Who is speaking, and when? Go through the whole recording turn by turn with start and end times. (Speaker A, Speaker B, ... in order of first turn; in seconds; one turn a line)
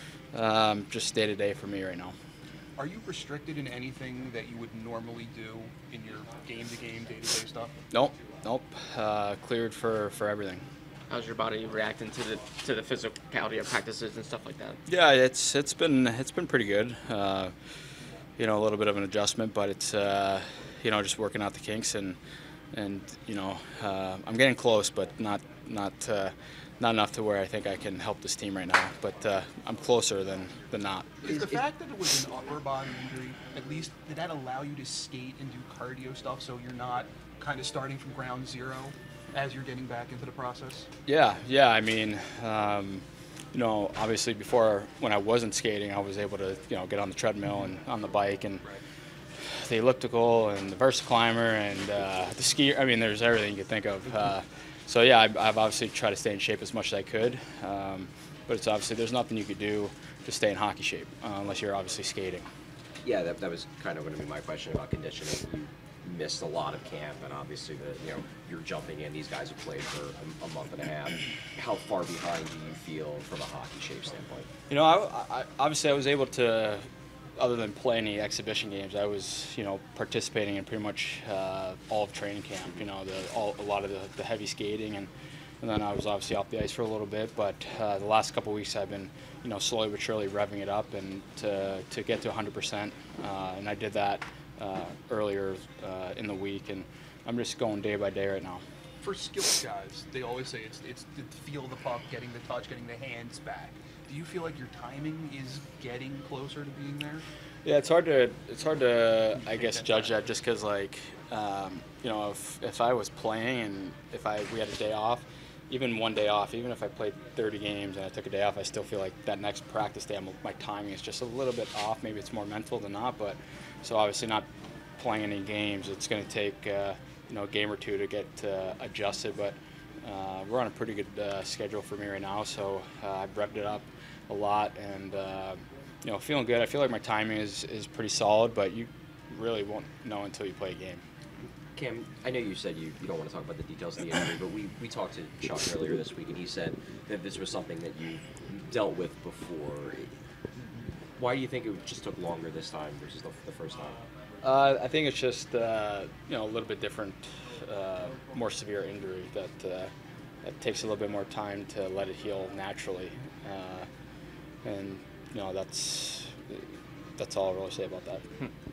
Speaker A: 0.3-2.1
Speaker B: 2.8-7.7
Speaker A: 7.9-10.6
Speaker C: 11.1-14.8
Speaker A: 14.8-17.5
Speaker A: 18.4-22.2
Speaker A: 22.7-31.4
Speaker B: 31.2-40.9
Speaker A: 41.0-48.6
Speaker A: 49.4-62.5
Speaker D: 63.0-74.5
Speaker A: 74.7-76.8
Speaker A: 77.4-85.1
Speaker A: 85.6-98.6
Speaker B: 99.0-107.2
Speaker A: 107.6-124.5
Speaker A: 125.0-141.0
Speaker D: 141.7-154.0
Speaker A: 154.4-159.9
Speaker A: 160.4-163.9
Speaker A: 164.6-168.2